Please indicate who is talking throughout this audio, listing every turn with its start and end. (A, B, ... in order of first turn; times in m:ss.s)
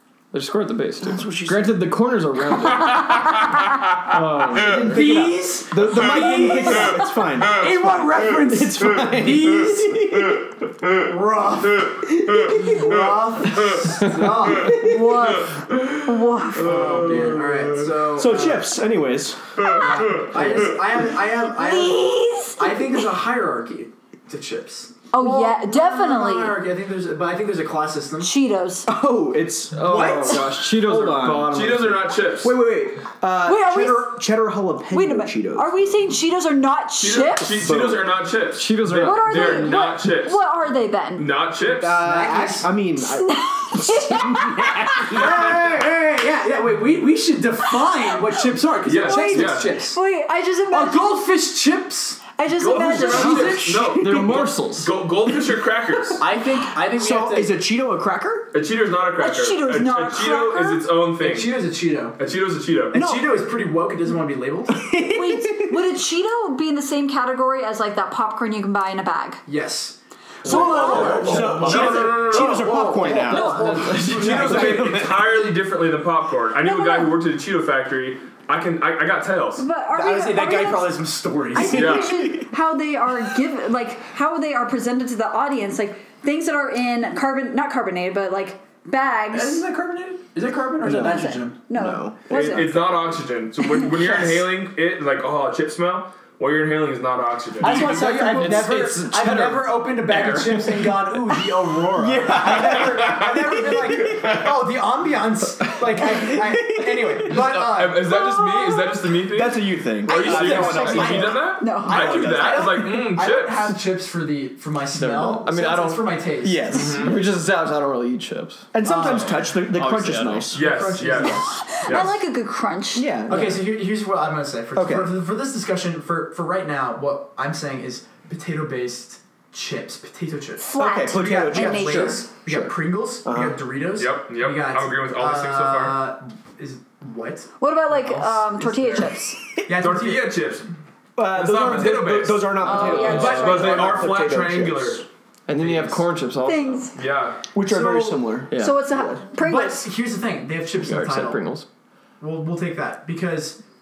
0:00.3-0:05.2 A
0:01.0-0:01.8 B
0:04.6-0:10.5 B
0:04.8-0:10.1 C
0:10.9-0:15.0 C
0:12.0-0:13.0 B
0:14.0-0:14.3 A
0:14.6-0:16.8 D
0:15.7-0:16.0 E
0:16.6-0:17.9 E
0:16.6-0:18.7 C
0:16.7-0:17.4 B
0:18.2-0:20.9 B
0:19.7-0:28.3 C
0:21.4-0:23.1 D
0:25.1-0:26.6 D
0:28.2-0:28.9 D
0:28.9-0:31.5 B
0:29.7-0:32.2 A
0:31.5-0:32.6 E
0:32.4-0:35.8 B
0:33.4-0:34.2 D
0:34.9-0:37.7 D
0:37.0-0:40.4 E
0:37.6-0:38.1 B
0:38.5-0:39.8 A
0:39.0-0:41.3 D
0:41.2-0:42.0 E
0:41.8-0:45.7 B
0:41.9-0:42.7 C
0:43.0-0:45.2 D
0:45.1-0:50.0 C
0:48.8-0:49.8 E
0:49.0-0:51.2 D
0:50.7-0:53.7 C
0:52.4-0:53.6 D
0:52.6-0:56.2 E
0:53.0-0:54.5 B
0:53.9-0:54.9 A
0:56.2-0:57.5 C
0:56.8-0:58.5 B
0:58.5-1:03.0 E
0:59.2-1:00.9 D
1:01.2-1:02.2 C
1:02.9-1:03.4 B
1:02.9-1:04.9 C
1:04.7-1:05.8 B
1:05.1-1:09.4 D
1:09.5-1:15.5 C
1:10.4-1:11.6 D
1:10.4-1:15.4 B
1:10.7-1:12.7 E
1:13.1-1:13.9 D
1:13.3-1:19.6 E
1:13.6-1:14.4 A
1:16.6-1:17.2 D
1:19.6-1:29.6 D
1:19.9-1:21.9 C
1:21.6-1:22.5 B
1:21.7-1:22.2 E
1:29.3-1:31.6 C
1:30.8-1:32.3 B
1:30.8-1:32.8 D
1:32.3-1:38.1 E
1:34.0-1:34.4 C
1:37.6-1:48.2 C
1:37.6-1:40.9 A
1:42.0-1:44.4 B
1:42.5-1:43.4 E
1:44.2-1:44.5 E
1:46.0-1:47.4 B
1:47.3-1:53.8 E
1:48.1-1:49.0 D
1:49.3-1:52.7 B
1:50.1-1:57.2 C
1:51.6-1:52.2 D
1:54.9-1:56.2 A
1:56.4-1:57.1 B
1:56.7-1:57.2 E
1:56.8-2:00.5 A
1:58.7-2:00.6 B
1:58.8-1:59.3 C
2:00.5-2:02.2 E
2:00.5-2:01.6 C
2:01.2-2:03.1 D
2:03.0-2:03.7 B
2:03.3-2:20.4 C
2:04.8-2:05.1 B
2:10.6-2:12.3 D
2:10.8-2:13.6 B
2:14.0-2:16.0 E
2:17.6-2:19.4 D
2:19.8-2:20.7 E
2:21.2-2:25.0 B
2:21.3-2:25.0 E
2:22.6-2:24.0 D
2:22.7-2:24.0 C
2:25.5-2:26.9 A
2:25.6-2:26.0 E
2:26.4-2:26.9 D
2:27.0-2:27.5 E
2:27.5-2:29.2 B
2:27.6-2:28.3 C
2:28.5-2:28.8 A
2:28.6-2:29.9 D
2:29.4-2:31.4 C
2:30.8-2:31.7 A
2:32.2-2:33.6 C